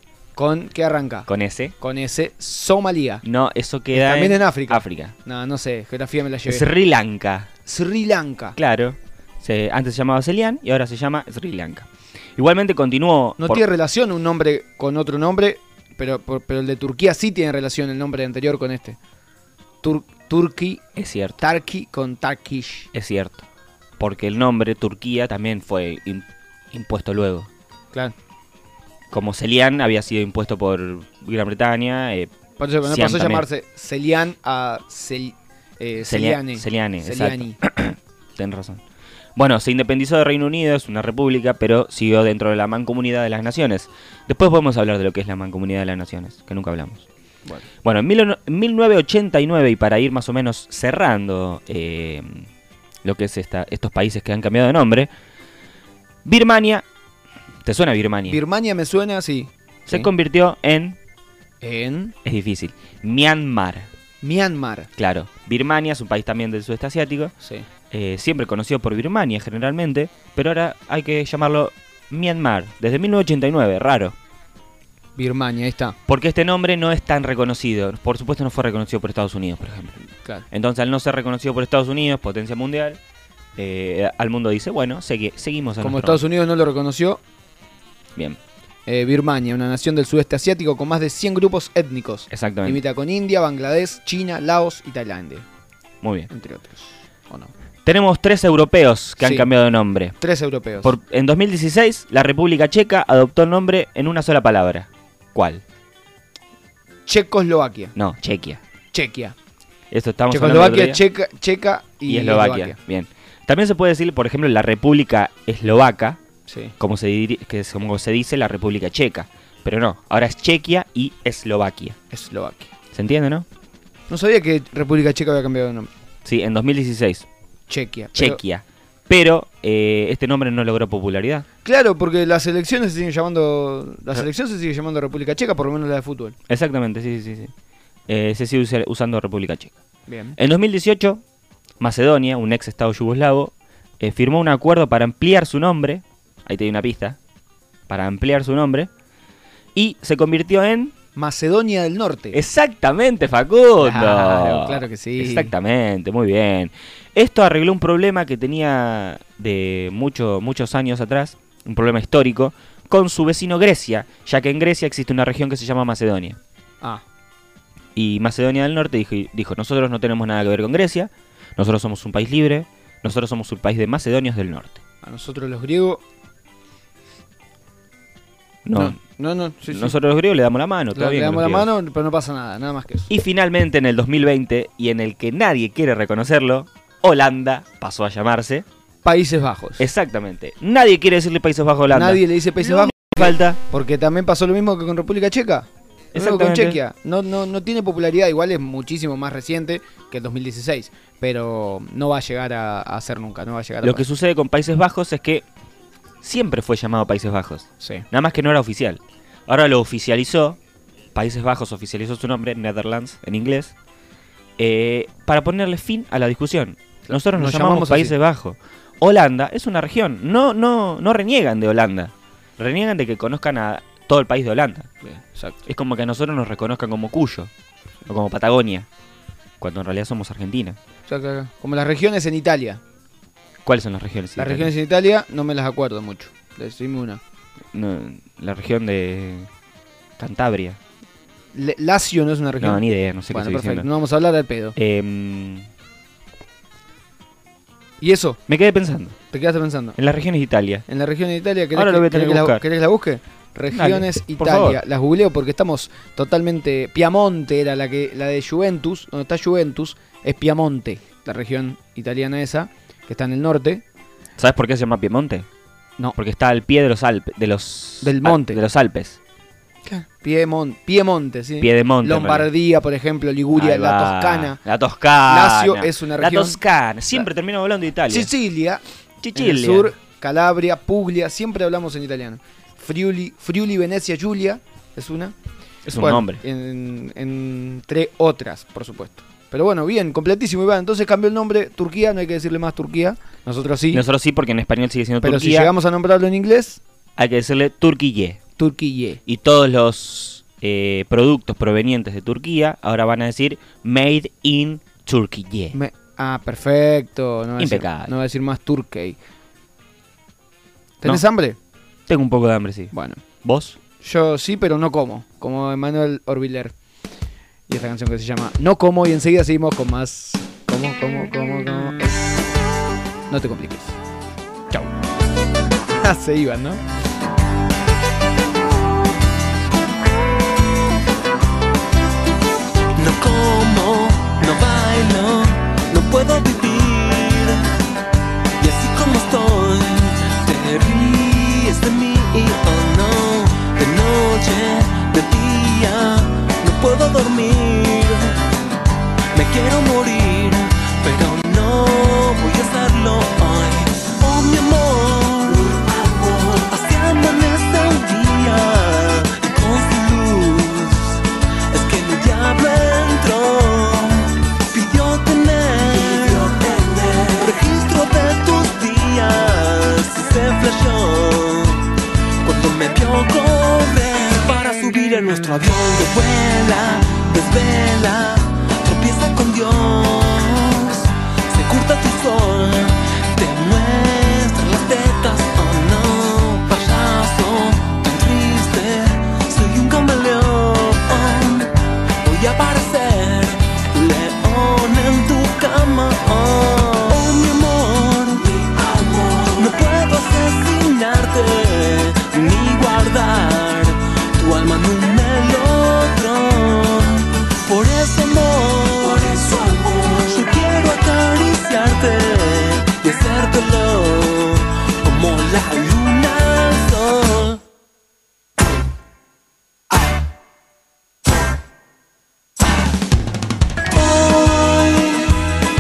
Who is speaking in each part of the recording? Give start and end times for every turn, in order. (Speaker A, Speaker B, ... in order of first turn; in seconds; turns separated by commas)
Speaker A: 0.4-1.3, Speaker B: 1.3-1.8, Speaker A: 1.8-3.2, Speaker B: 3.2-5.1, Speaker A: 3.9-6.7, Speaker B: 6.5-7.5, Speaker A: 7.7-8.6, Speaker B: 8.6-13.6, Speaker A: 13.4-19.0, Speaker A: 19.8-20.8, Speaker B: 21.0-21.4, Speaker A: 21.4-22.9, Speaker B: 22.9-23.4, Speaker B: 24.0-27.5, Speaker B: 29.1-32.3, Speaker A: 32.6-37.6, Speaker B: 32.8-33.5, Speaker B: 36.1-38.8, Speaker B: 39.4-47.1, Speaker B: 47.8-52.5, Speaker B: 53.0-55.1, Speaker B: 56.2-56.9, Speaker B: 57.6-58.4, Speaker A: 58.3-60.1, Speaker B: 59.9-61.0, Speaker A: 61.6-62.1, Speaker B: 62.2-63.9, Speaker A: 64.2-64.9, Speaker B: 65.0-67.3, Speaker A: 67.4-67.7, Speaker B: 67.9-74.2, Speaker A: 75.2-76.0, Speaker B: 76.1-80.0, Speaker B: 80.5-83.0, Speaker B: 83.6-86.2, Speaker A: 85.8-87.2, Speaker A: 88.9-95.5, Speaker B: 92.3-92.8, Speaker B: 96.0-96.3, Speaker A: 96.3-97.5, Speaker B: 97.9-100.2, Speaker A: 99.2-99.5, Speaker A: 100.2-101.0, Speaker B: 100.8-105.6, Speaker A: 107.1-107.9, Speaker B: 108.0-108.6, Speaker A: 108.9-109.3, Speaker B: 109.9-111.0, Speaker A: 110.3-112.8, Speaker B: 112.1-116.2, Speaker A: 116.5-116.7, Speaker B: 116.8-122.0, Speaker A: 122.1-122.7, Speaker B: 122.9-123.5, Speaker A: 124.1-125.9, Speaker B: 126.2-127.3, Speaker A: 127.7-128.4, Speaker B: 128.2-131.5, Speaker A: 131.6-136.4, Speaker B: 136.5-137.5, Speaker B: 138.1-139.8, Speaker A: 140.1-140.4, Speaker B: 140.4-141.2, Speaker B: 141.8-147.2, Speaker B: 147.9-148.9, Speaker B: 149.8-150.9, Speaker A: 151.2-152.4, Speaker B: 152.3-166.4, Speaker A: 153.8-155.5, Speaker B: 167.9-174.8, Speaker A: 175.0-176.0, Speaker B: 178.7-179.0, Speaker A: 178.8-179.9, Speaker B: 179.7-181.7, Speaker A: 180.9-183.1, Speaker B: 183.1-188.7, Speaker A: 189.0-189.9, Speaker B: 189.8-193.6, Speaker A: 191.9-204.1, Speaker B: 196.1-196.8, Speaker B: 203.8-205.4, Speaker B: 206.2-210.6, Speaker A: 207.8-208.1, Speaker B: 211.1-213.7, Speaker B: 214.6-224.9, Speaker A: 217.1-218.2, Speaker A: 225.0-225.6, Speaker B: 225.7-227.5, Speaker B: 228.1-228.9, Speaker B: 229.6-230.8, Speaker A: 231.1-232.8, Speaker B: 233.7-234.7, Speaker A: 234.4-237.2, Speaker B: 237.7-239.5, Speaker B: 240.2-240.8, Speaker A: 241.5-244.8, Speaker B: 242.6-243.9, Speaker B: 244.8-245.7, Speaker A: 248.0-248.4, Speaker B: 248.5-249.2, Speaker A: 249.3-250.0, Speaker B: 250.0-250.8, Speaker A: 250.9-263.8, Speaker B: 251.7-252.6, Speaker B: 253.7-254.8, Speaker B: 264.4-265.5, Speaker B: 266.1-269.2, Speaker A: 268.0-268.6, Speaker A: 269.9-274.6, Speaker B: 271.6-272.5, Speaker B: 273.6-278.3, Speaker A: 275.3-276.6, Speaker A: 278.1-278.8, Speaker B: 279.2-279.9, Speaker A: 279.4-285.4, Speaker B: 285.9-286.4, Speaker A: 286.0-294.0, Speaker B: 293.9-295.7, Speaker A: 295.2-296.8, Speaker B: 297.2-298.4, Speaker A: 298.6-299.2, Speaker B: 299.3-305.8, Speaker A: 305.7-309.2, Speaker B: 307.6-308.1, Speaker A: 311.0-311.6, Speaker B: 312.1-313.8, Speaker A: 312.9-313.2, Speaker A: 314.0-316.7, Speaker A: 317.7-322.2, Speaker A: 323.3-324.0, Speaker A: 325.9-326.8, Speaker C: 333.0-337.7, Speaker C: 338.6-348.4, Speaker C: 349.3-371.9, Speaker C: 372.4-417.6, Speaker C: 423.9-425.3